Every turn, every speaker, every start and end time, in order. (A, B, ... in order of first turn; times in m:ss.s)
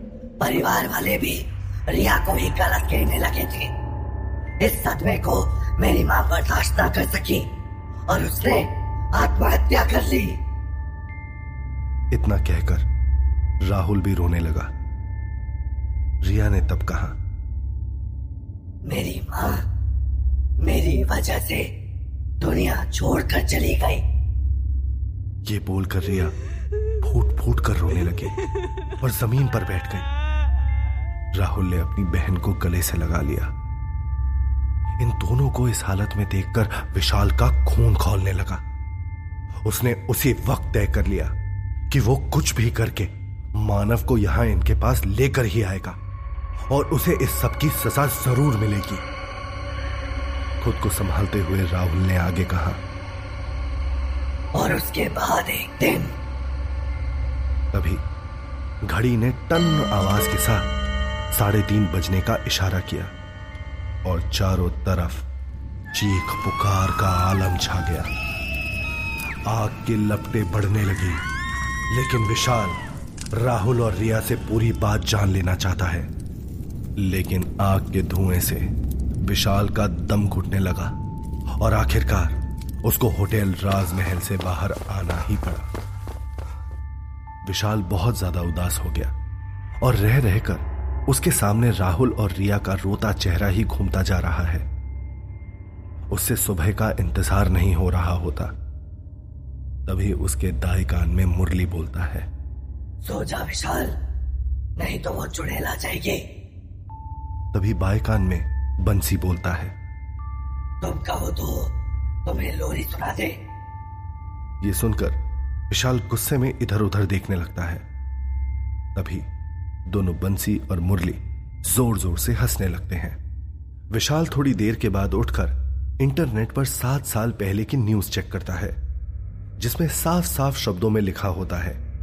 0:00.4-0:03.7 A
0:04.6-0:07.5 A
0:08.1-0:10.4 A
0:12.1-0:12.9 B
0:13.6-0:14.7 B
0:16.2-0:17.2 B
0:18.8-0:19.6 A
0:20.6-0:21.7 A
0:22.4-0:24.0 A
0:25.5-0:26.3 B
0:27.0-0:28.4 B
0:29.0-0:30.1 B
0:31.4-0:33.5 B
0:35.0-0:38.6 B
0:39.6-0:41.3 B
0:41.9-0:46.0 B
0:46.7-0:49.0 B
0:50.6-0:52.8 B
0:54.6-0:56.1 A
0:57.7-0:58.0 B
0:58.8-1:00.7 B
1:01.3-1:03.1 B
1:04.0-1:05.2 B
1:05.9-1:08.1 B
1:09.5-1:11.2 B
1:11.9-1:12.8 B
1:13.3-1:16.1 B
1:17.0-1:18.7 B
1:19.2-1:21.0 B
1:21.6-1:25.7 B
1:27.5-1:29.1 B
1:29.8-1:34.7 B
1:36.1-1:38.5 B
1:39.9-1:42.3 B
1:43.0-1:44.0 A
1:44.8-1:46.2 A
1:47.5-1:49.8 B
1:50.8-1:51.7 A
1:52.2-1:53.4 A
1:54.6-1:55.2 B
1:55.7-1:57.8 B
1:59.0-1:59.2 B
1:59.9-2:03.2 B
2:03.9-2:08.8 B
2:09.6-2:11.8 B